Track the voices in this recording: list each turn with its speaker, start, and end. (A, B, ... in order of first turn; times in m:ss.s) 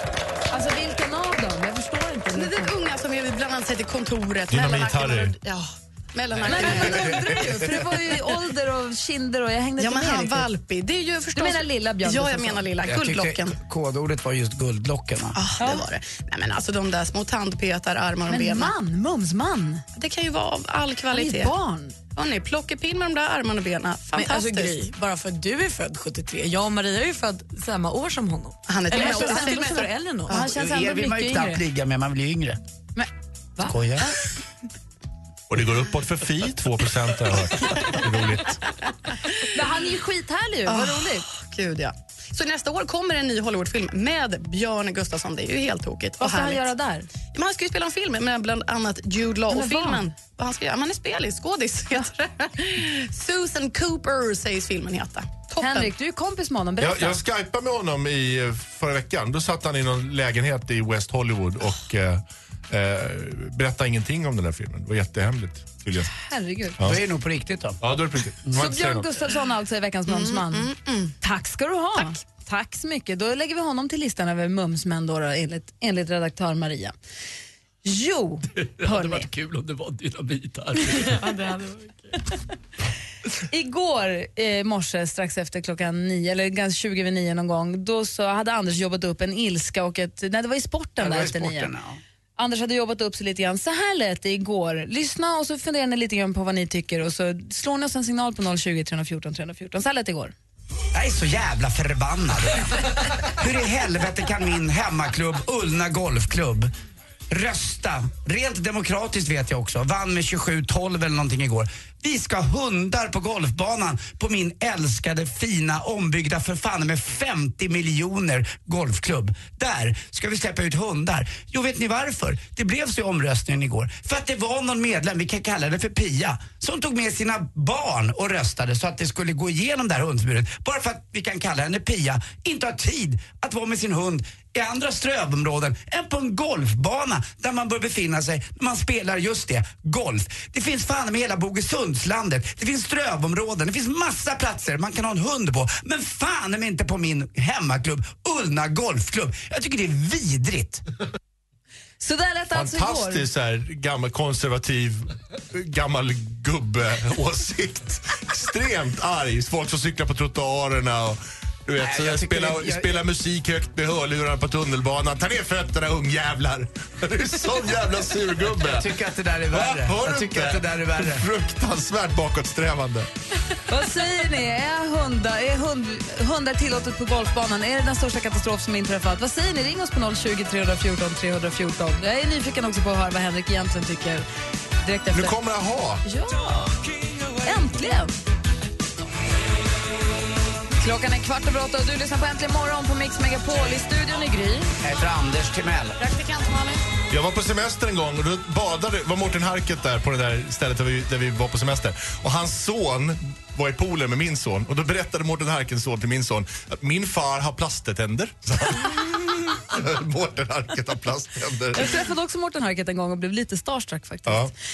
0:00.5-0:02.7 A
0:02.3-0:07.4 B
0:04.5-0:05.3 C
0:06.4-0:10.5 A
0:07.4-0:07.7 C
0:09.8-0:13.6 B
0:11.3-0:12.6 A
0:12.8-0:15.4 D
0:15.4-0:18.7 B
0:15.6-0:15.8 A
0:18.3-0:19.8 A
0:20.0-0:21.5 B
0:21.1-0:21.9 A
0:22.1-0:24.9 B
0:24.1-0:30.3 E
0:28.7-0:30.4 B
0:28.9-0:31.6 A
0:30.3-0:32.6 D
0:33.0-0:33.8 A
0:33.6-0:34.2 D
0:35.5-0:38.6 C
0:39.4-0:41.2 A
0:40.6-0:46.6 B
0:46.2-0:47.1 A
0:47.3-0:55.9 B
0:49.5-0:50.1 A
0:55.6-0:57.2 A
0:56.8-1:06.2 C
1:06.2-1:06.8 A
1:06.8-1:07.8 D
1:07.8-1:09.0 C
1:08.5-1:10.7 A
1:10.1-1:11.1 B
1:11.2-1:16.9 A
1:17.8-1:19.3 A
1:18.8-1:21.0 F
1:21.0-1:21.9 E
1:23.5-1:31.7 A
1:31.0-1:32.0 D
1:32.4-1:40.3 A
1:40.9-1:46.7 D
1:47.3-2:30.8 D
2:32.0-2:33.2 A
2:32.5-2:48.9 C
2:41.8-2:43.0 D
2:48.4-2:51.2 D
2:49.5-2:53.1 C
2:53.7-3:04.2 A
3:04.8-3:05.4 A
3:05.1-3:06.0 C
3:06.0-3:06.7 A
3:07.4-3:08.2 A
3:10.8-3:14.7 A
3:14.8-3:16.0 D
3:16.0-3:16.8 B
3:17.1-3:32.0 C
3:31.7-3:34.5 A
3:34.3-3:34.5 C